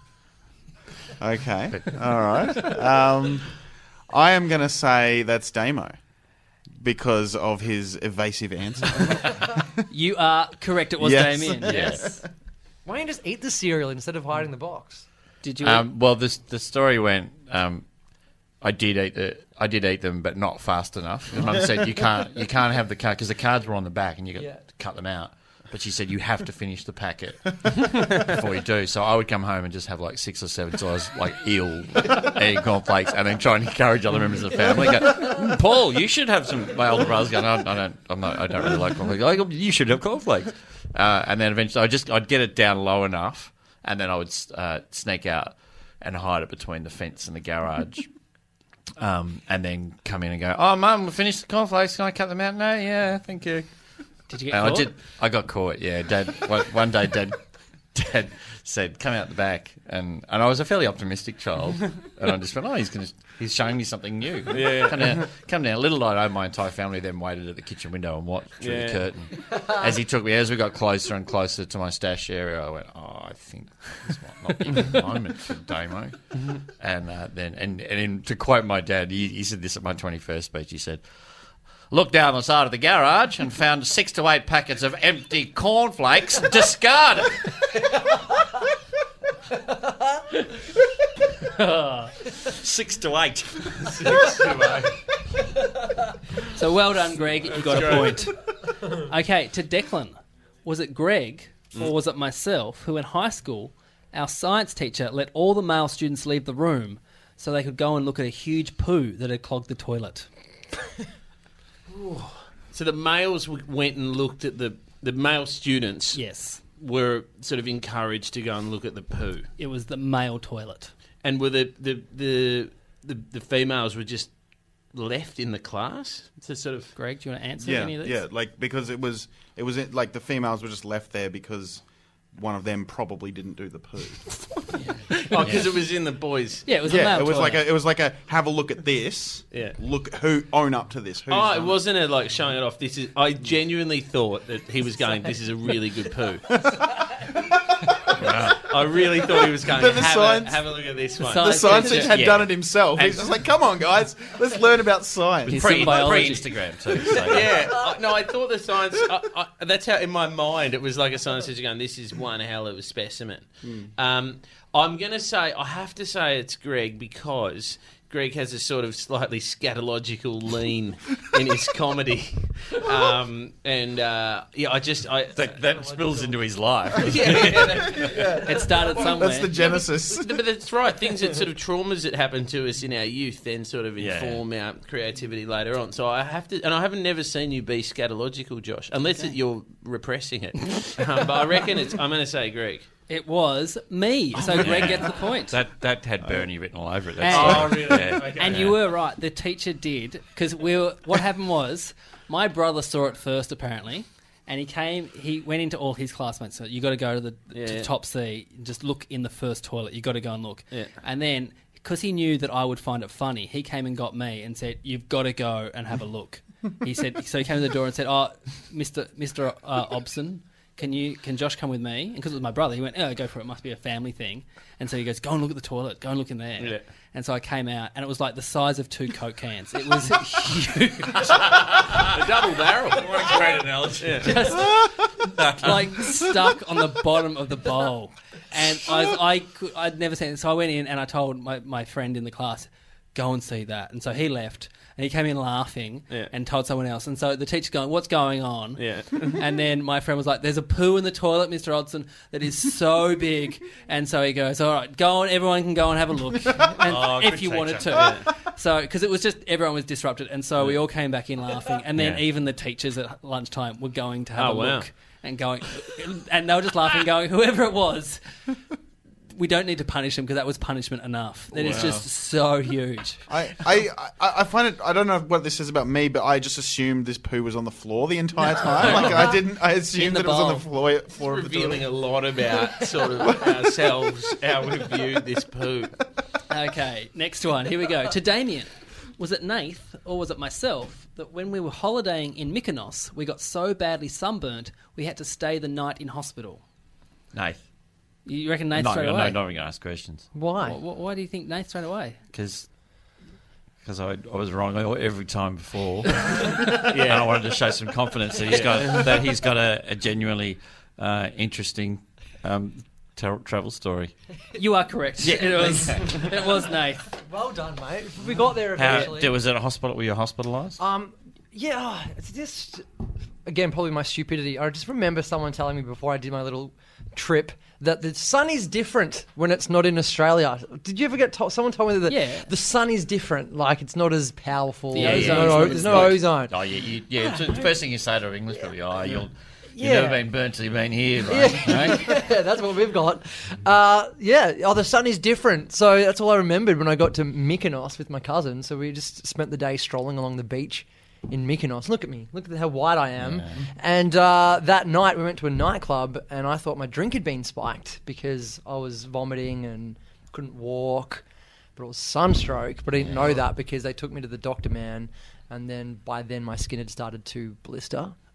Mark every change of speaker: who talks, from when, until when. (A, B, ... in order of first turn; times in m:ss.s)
0:01.2-0:03.5 A
0:04.1-0:06.0 A
0:06.8-0:09.8 A
0:09.9-0:12.2 B
0:11.0-0:12.2 A
0:11.7-0:12.1 C
0:12.8-0:15.1 D
0:15.4-0:15.9 B
0:15.6-0:17.8 C
0:18.6-0:48.1 C
0:24.4-0:24.6 D
0:49.0-0:53.7 C
0:54.3-0:54.9 B
0:54.5-0:57.4 C
0:57.9-1:21.0 C
1:04.5-1:05.3 E
1:08.6-1:09.0 E
1:21.9-1:27.6 C
1:31.6-1:32.1 B
1:32.4-1:34.8 C
1:33.8-1:34.9 E
1:36.5-1:50.3 B
1:37.7-1:38.0 E
1:52.7-1:56.2 E
1:56.1-1:56.6 B
1:56.8-1:59.5 E
1:59.6-2:00.9 B
2:01.2-2:04.3 E
2:04.9-2:07.0 E
2:07.0-2:08.2 B
2:07.6-2:14.5 A
2:15.3-2:16.7 E
2:16.7-2:17.6 B
2:16.8-2:21.8 A
2:19.5-2:19.8 E
2:21.3-2:26.7 E
2:28.2-2:28.7 C
2:28.6-2:32.1 E
2:29.4-2:30.7 A
2:31.3-2:32.1 B
2:31.3-2:35.9 A
2:32.1-2:33.3 C
2:35.5-2:37.7 C
2:35.5-2:36.5 B
2:37.1-2:55.5 E
2:55.3-2:58.3 C
2:56.0-2:56.3 D
2:57.0-2:58.2 E
2:58.1-2:58.4 A
2:58.4-2:59.5 B
2:59.0-3:00.4 A
3:00.2-3:12.9 E
3:04.0-3:04.4 C
3:13.1-3:15.6 B
3:14.4-3:18.8 C
3:17.2-3:51.4 B
3:17.3-3:18.6 E
3:27.5-3:27.9 E
3:51.4-3:52.2 C
3:52.0-3:53.3 E
3:52.9-3:54.7 C
3:54.0-3:54.5 E
3:54.2-3:54.9 B
3:55.3-3:56.2 C
3:55.6-4:28.2 B
4:08.8-4:09.4 E
4:16.8-4:18.1 C
4:18.0-4:18.2 E
4:22.0-4:22.2 C
4:24.4-4:24.9 E
4:29.3-4:33.3 B
4:31.6-4:32.0 A
4:33.3-4:41.9 A
4:38.8-4:39.4 B
4:39.9-4:40.7 B
4:41.2-4:46.0 E
4:43.3-4:43.6 A
4:46.5-4:56.6 B
4:57.3-4:57.6 C
4:58.3-4:59.4 B
4:58.7-5:00.3 C
5:00.3-5:00.8 D
5:00.6-5:02.2 B
5:02.3-5:02.7 C
5:03.8-5:14.1 C
5:06.8-5:07.4 E
5:08.5-5:09.1 E
5:14.6-5:17.0 B
5:15.2-5:16.3 C
5:17.2-5:19.3 D
5:18.8-5:20.8 C
5:20.8-5:22.9 D
5:23.4-5:36.6 D
5:32.1-5:32.5 B
5:34.9-5:36.2 B
5:34.9-5:42.2 C
5:37.2-5:37.7 D
5:39.8-5:40.2 D
5:41.3-6:01.2 D
5:53.2-5:53.6 C
6:01.8-6:08.2 D
6:03.0-6:03.4 C